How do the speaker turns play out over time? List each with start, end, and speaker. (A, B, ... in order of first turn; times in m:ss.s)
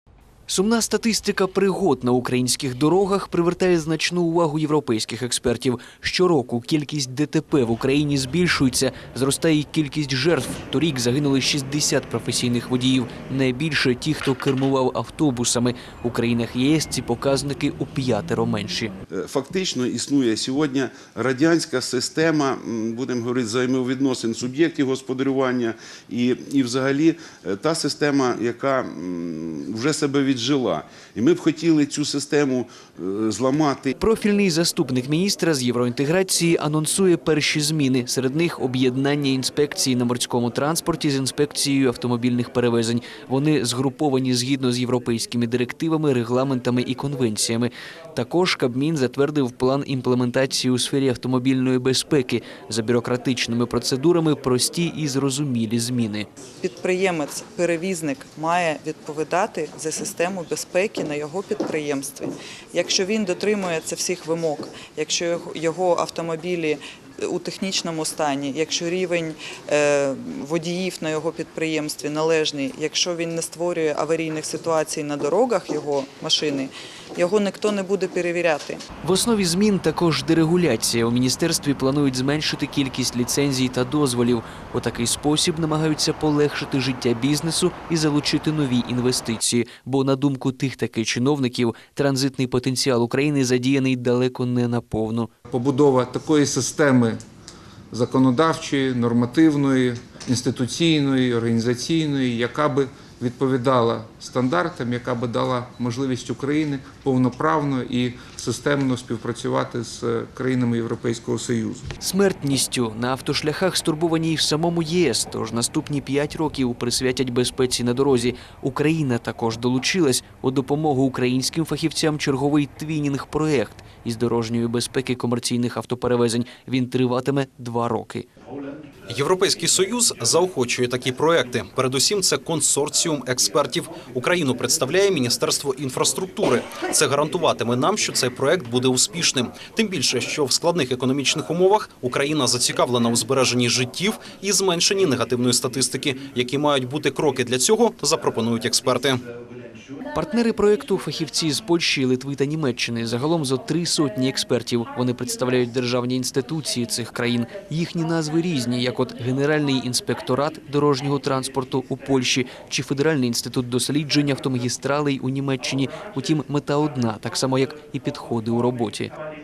0:00.5-0:18.9 A
0:19.1-0:33.9 B
0:34.0-0:56.3 A
0:56.6-1:18.8 C
1:19.0-1:35.3 A
1:35.5-1:37.2 D
1:37.9-1:51.8 D
1:52.0-2:08.3 A
2:09.1-2:29.2 E
2:30.2-2:49.1 A